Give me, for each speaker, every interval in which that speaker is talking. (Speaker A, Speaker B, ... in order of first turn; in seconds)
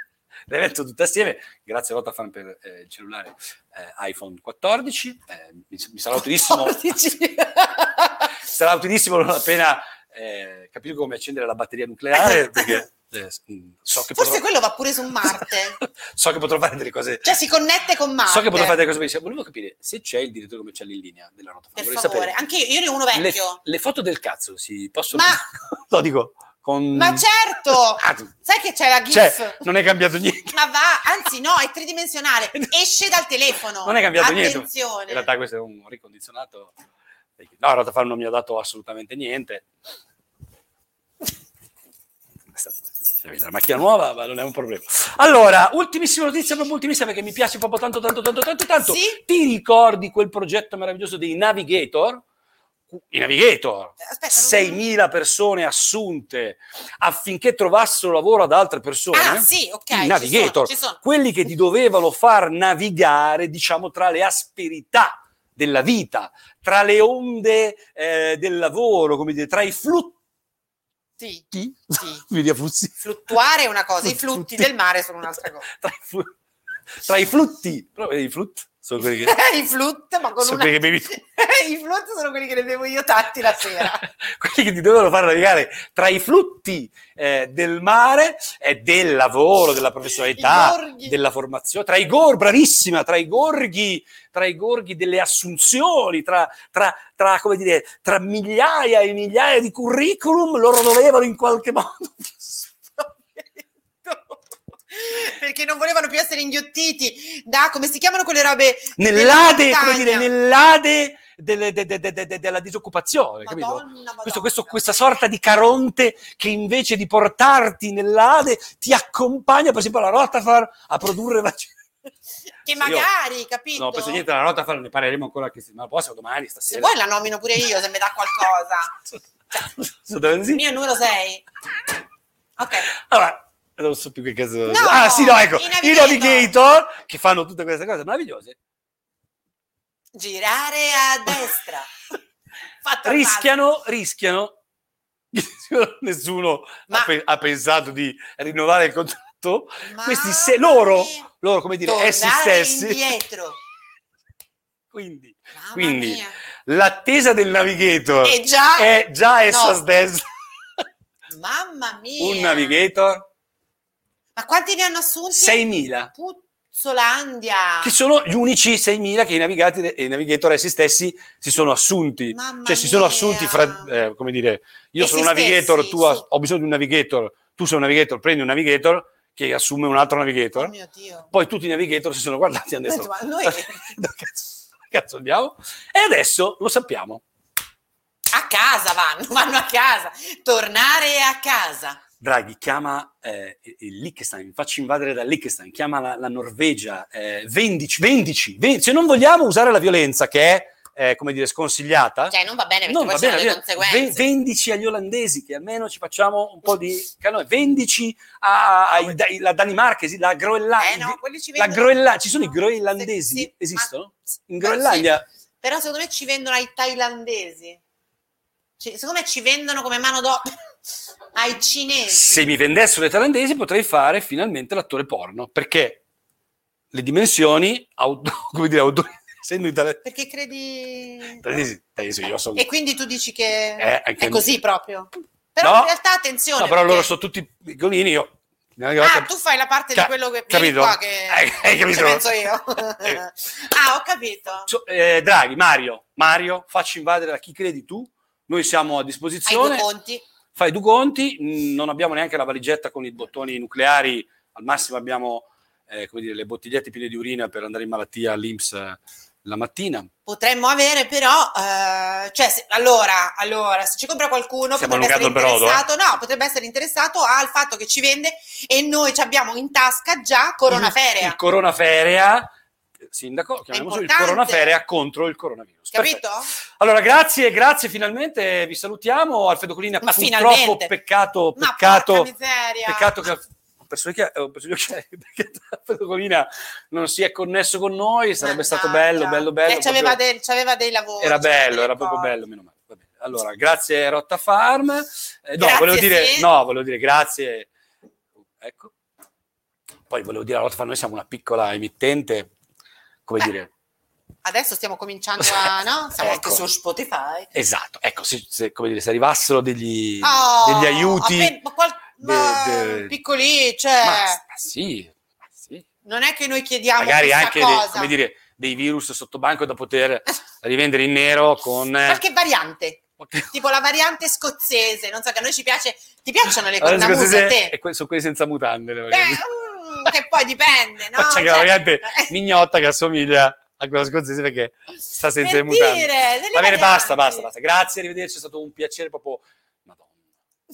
Speaker A: 0.5-7.1, 8.4-14.4, 15.3-17.4, 18.3-22.3, 23.1-27.2, 28.0-28.3, 29.1-30.6, 33.8-36.7, 37.4-39.7, 42.5-52.2, 52.9-70.2, 71.5-73.0, 74.0-74.7, 75.7-76.3, 77.0-79.4, 80.4-81.2, 84.0-102.8, 109.0-121.8, 122.8-123.1, 123.8-126.9, 129.5-130.6, 132.9-138.6, 143.0-144.6, 145.3-153.1, 154.9-160.3, 162.2-163.3, 165.3-166.1, 167.8-180.7, 181.3-187.2, 192.2-202.3, 202.9-215.2, 222.1-226.0, 226.9-230.0, 231.4-232.7, 233.8-234.5, 235.6-235.9, 236.6-239.3, 239.9-242.3, 244.7-249.9, 250.6-260.1, 264.8-265.9, 270.7-272.5, 273.1-276.2, 276.8-282.3, 282.9-290.2, 291.2-297.7, 298.6-298.9, 300.1-302.5, 303.3-303.7, 306.2-306.6, 307.5-311.6, 312.2-313.1, 314.0-315.9, 317.0-322.2, 323.2-323.5, 326.8-329.4, 331.1-340.1
Speaker B: 6.5-8.3, 12.1-12.8, 14.1-15.8, 17.2-18.8, 21.8-23.6, 25.1-25.4, 26.9-29.6, 30.5-35.3, 48.8-49.2, 54.0-54.8, 59.1-61.0, 71.2-72.2, 73.0-75.7, 79.0-84.0, 90.1-91.2, 103.4-104.4, 104.9-110.3, 113.4-114.9, 122.7-124.2, 126.7-128.9, 130.5-131.4, 132.6-132.9, 134.7-136.5, 140.2-141.9, 142.8-143.5, 149.8-151.3, 151.8-153.6, 155.5-156.4, 158.2-158.9, 159.5-159.8, 161.3-162.8, 164.4-167.9, 172.3-173.9, 175.0-176.2, 180.6-181.3, 182.9-183.9, 188.3-192.0, 202.3-204.2, 210.8-213.9, 214.6-217.8, 218.8-220.5, 221.3-222.5, 230.0-231.4, 232.6-237.1, 239.0-244.7, 249.5-250.2, 260.3-271.4, 273.7-274.8, 275.9-276.5, 280.0-280.9, 281.6-283.2, 288.4-292.4, 295.6-296.5, 304.4-307.5, 310.2-314.4, 316.0-318.1, 322.0-327.8, 329.1-332.3, 335.4-337.5